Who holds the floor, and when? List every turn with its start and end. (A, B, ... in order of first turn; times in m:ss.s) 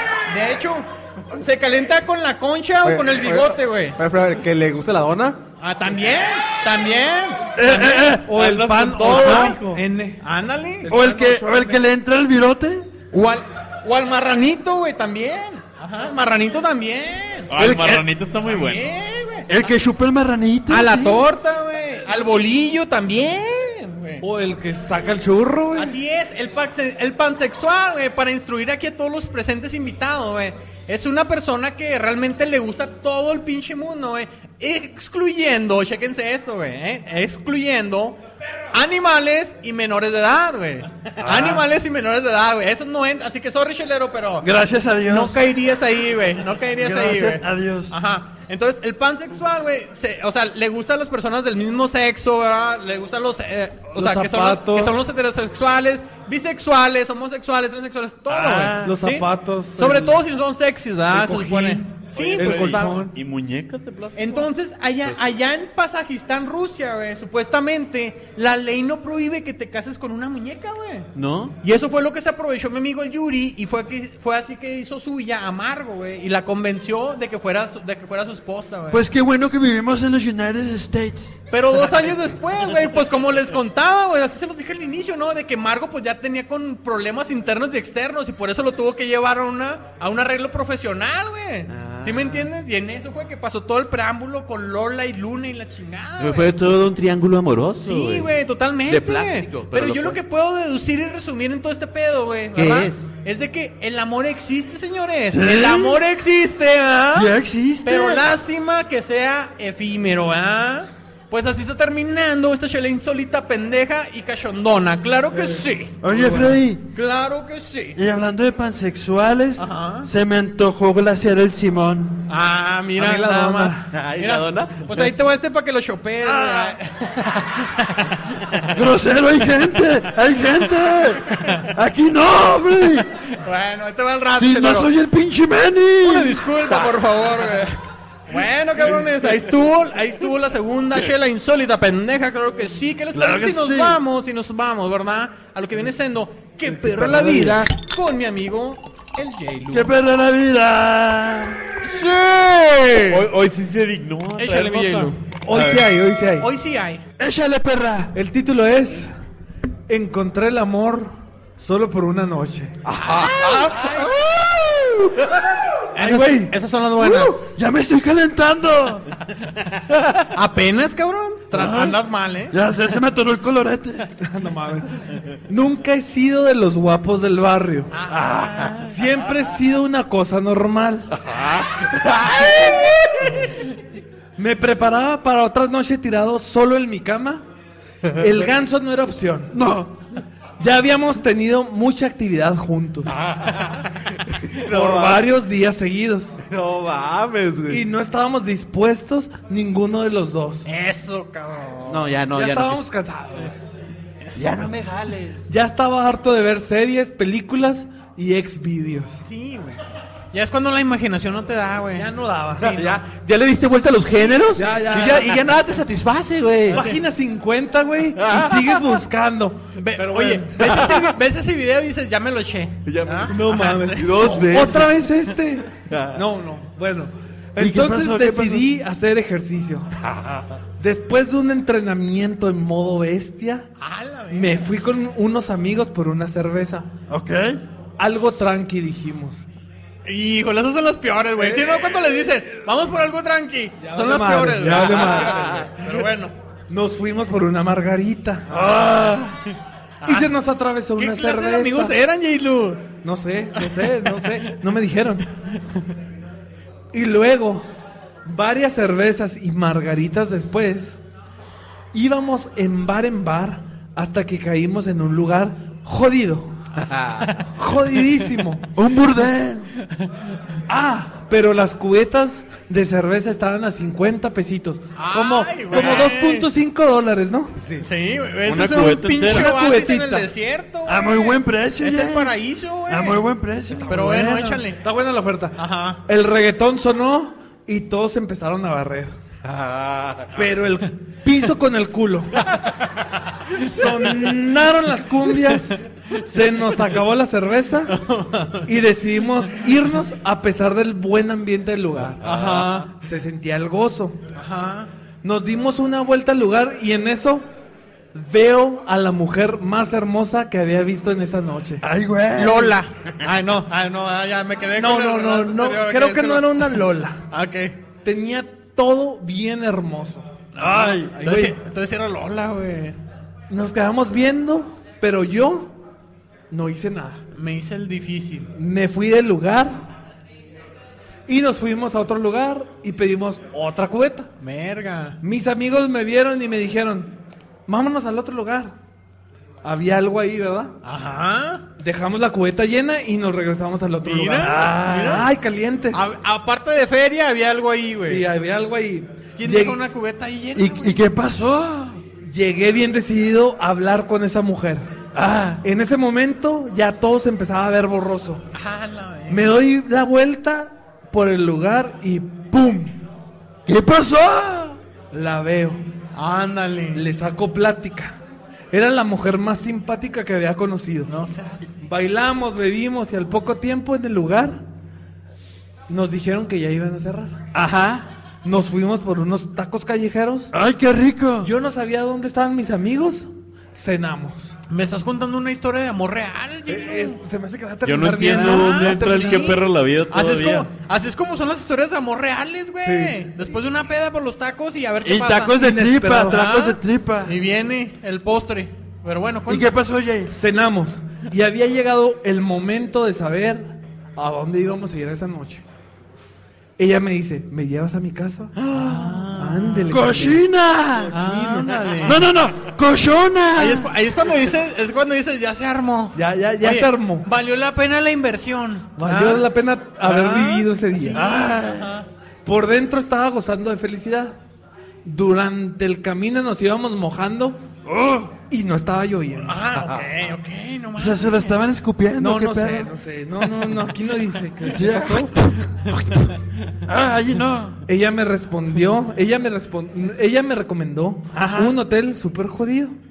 0:00.3-0:04.0 A
0:02.8-0:05.4 B
0:05.6-0:08.0 A
0:07.5-0:08.4 C
0:07.7-0:10.2 D
0:08.3-0:09.8 E
0:09.1-0:09.6 A
0:09.1-0:09.6 C
0:10.2-0:10.9 A
0:10.8-0:11.8 D
0:10.9-0:12.9 C
0:13.1-0:17.5 A
0:17.5-0:18.8 E
0:17.6-0:18.1 C
0:18.4-0:19.7 A
0:19.5-0:21.2 C
0:20.7-0:24.2 A
0:24.2-0:26.0 D
0:25.7-0:38.2 A
0:38.7-0:44.5 A
0:41.2-0:41.6 C
0:44.4-0:45.4 C
0:45.0-1:02.9 A
0:46.8-0:48.0 C
0:53.9-0:55.0 D
0:58.3-0:58.9 C
0:58.8-1:00.2 D
1:01.1-1:03.1 D
1:02.1-1:04.5 E
1:04.2-1:11.1 A
1:11.6-1:19.0 A
1:18.9-1:21.4 C
1:21.5-1:36.7 A
1:31.7-1:32.5 F
1:36.2-1:38.3 F
1:37.8-1:47.3 A
1:38.9-1:40.2 F
1:42.5-1:43.0 F
1:45.3-1:46.0 C
1:47.1-1:48.3 C
1:47.8-1:58.0 A
1:56.0-1:56.8 C
1:58.0-2:02.3 C
1:59.6-2:00.1 A
2:02.3-2:08.7 A
2:03.0-2:04.0 D
2:03.9-2:04.8 F
2:06.2-2:06.7 C
2:08.7-2:13.1 C
2:11.3-2:11.7 A
2:13.3-2:14.9 A
2:14.3-2:16.8 C
2:16.0-2:29.9 A
2:23.1-2:24.0 C
2:26.7-2:27.7 D
2:29.7-2:31.6 C
2:31.8-2:33.2 A
2:33.1-2:35.8 E
2:34.4-2:35.2 A
2:35.4-2:36.5 D
2:36.4-2:37.0 A
2:37.2-2:38.1 C
2:38.1-2:39.1 D
2:39.9-2:42.8 D
2:42.8-2:45.4 C
2:43.1-2:44.1 A
2:45.9-2:47.5 A
2:46.0-2:49.0 C
2:50.3-2:52.5 A
2:51.5-2:54.1 C
2:54.2-2:57.9 D
2:57.9-2:58.7 A
2:58.1-2:58.8 C
2:58.8-3:01.1 D
3:02.0-3:03.3 C
3:04.4-3:07.4 D
3:08.2-3:09.5 D
3:09.5-3:10.0 C
3:10.6-3:13.1 D
3:13.3-3:13.8 F
3:14.5-3:16.4 D
3:14.6-3:15.2 F
3:16.4-3:17.8 F
3:17.7-3:20.6 D
3:20.6-3:22.1 A
3:21.8-3:22.9 F
3:22.3-3:23.5 D
3:24.3-3:25.4 F
3:25.5-3:29.2 D
3:29.2-3:29.8 A
3:30.3-3:32.1 A
3:31.9-3:33.0 D
3:32.6-3:36.8 F
3:34.5-3:35.4 D
3:36.7-3:40.9 D
3:38.2-3:38.8 F
3:39.8-3:44.4 A
3:42.8-3:44.9 F
3:43.3-3:49.9 D
3:45.9-3:46.2 F
3:47.6-3:48.7 C
3:50.1-3:50.4 F
3:50.8-3:53.7 D
3:53.8-3:54.7 A
3:54.3-3:56.9 D
3:57.1-3:57.6 C
3:58.0-3:59.4 D
4:00.0-4:06.3 A
4:01.4-4:01.8 D
4:03.8-4:05.7 D
4:04.6-4:05.6 C
4:06.7-4:08.6 D
4:08.5-4:09.4 C
4:10.0-4:10.3 A
4:10.0-4:12.0 D
4:11.0-4:12.9 A
4:13.0-4:15.3 D
4:13.6-4:13.9 A
4:16.9-4:17.6 D
4:18.2-4:21.0 D
4:21.9-4:26.5 D
4:26.8-4:27.2 F
4:27.5-4:28.7 D
4:28.7-4:29.7 C
4:30.7-4:37.6 D
4:35.0-4:36.5 A
4:37.8-4:43.2 A
4:38.4-4:39.6 E
4:39.2-4:40.3 D
4:40.8-4:42.4 C
4:42.9-4:44.4 C
4:43.8-4:49.1 D
4:43.8-4:44.8 A
4:45.6-4:46.0 A
4:49.4-4:50.4 F
4:50.3-4:52.5 D
4:53.5-4:58.0 D
4:53.5-4:54.1 A
4:58.1-4:58.6 A
4:58.6-5:02.2 D
5:02.2-5:02.9 A
5:02.9-5:04.2 D
5:04.4-5:04.9 A
5:05.2-5:07.4 D
5:08.1-5:11.8 D
5:11.8-5:12.8 C
5:12.3-5:16.8 A
5:14.8-5:17.2 D
5:17.3-5:17.8 A
5:18.0-5:20.2 D
5:20.5-5:23.0 A
5:20.6-5:21.2 C
5:21.1-5:21.5 D
5:23.5-5:25.7 D
5:26.5-5:27.2 D
5:27.3-5:28.5 A
5:28.6-5:29.8 D
5:31.3-5:34.3 D
5:34.4-5:35.2 A
5:35.2-5:38.7 D
5:39.6-5:40.8 D
5:40.8-5:41.6 A
5:41.8-5:46.0 D
5:44.0-5:45.3 A
5:44.4-5:45.3 C
5:45.9-5:48.2 A
5:48.0-5:49.8 D
5:49.4-5:51.0 A
5:50.5-5:52.0 C
5:52.2-5:54.9 D
5:55.1-5:55.6 C
5:55.6-5:58.4 D
5:58.5-5:59.5 A
5:59.3-6:03.0 D
6:03.6-6:04.8 C
6:05.1-6:05.8 D
6:06.1-6:07.1 A
6:06.9-6:08.2 D
6:08.7-6:11.1 D
6:11.0-6:11.8 A
6:11.8-6:14.6 D
6:15.9-6:17.4 D
6:17.5-6:18.0 F
6:18.4-6:20.5 D
6:20.5-6:21.5 C
6:21.4-6:24.5 D
6:24.7-6:27.2 A
6:26.7-6:29.6 D
6:27.8-6:30.7 E
6:28.2-6:35.6 A
6:32.8-6:33.3 D
6:35.0-6:37.4 C
6:35.6-6:36.5 D
6:36.2-6:39.7 A
6:39.5-6:40.4 C
6:40.3-6:45.6 D
6:46.8-6:50.4 D
6:48.5-6:51.2 C
6:48.7-6:49.9 A
6:51.1-6:52.2 A
6:51.1-6:52.0 D
6:52.0-6:53.9 C
6:53.5-6:59.5 A
6:56.1-6:57.3 D
6:59.0-7:01.3 D
7:00.0-7:02.0 A
7:01.1-7:01.9 C
7:02.4-7:04.4 D
7:05.0-7:07.6 D
7:07.8-7:08.4 C
7:08.4-7:09.6 D
7:09.4-7:11.5 A
7:11.0-7:12.9 C
7:12.2-7:15.3 D
7:14.7-7:16.3 C
7:16.8-7:17.8 C
7:17.9-7:23.0 D
7:21.3-7:21.8 C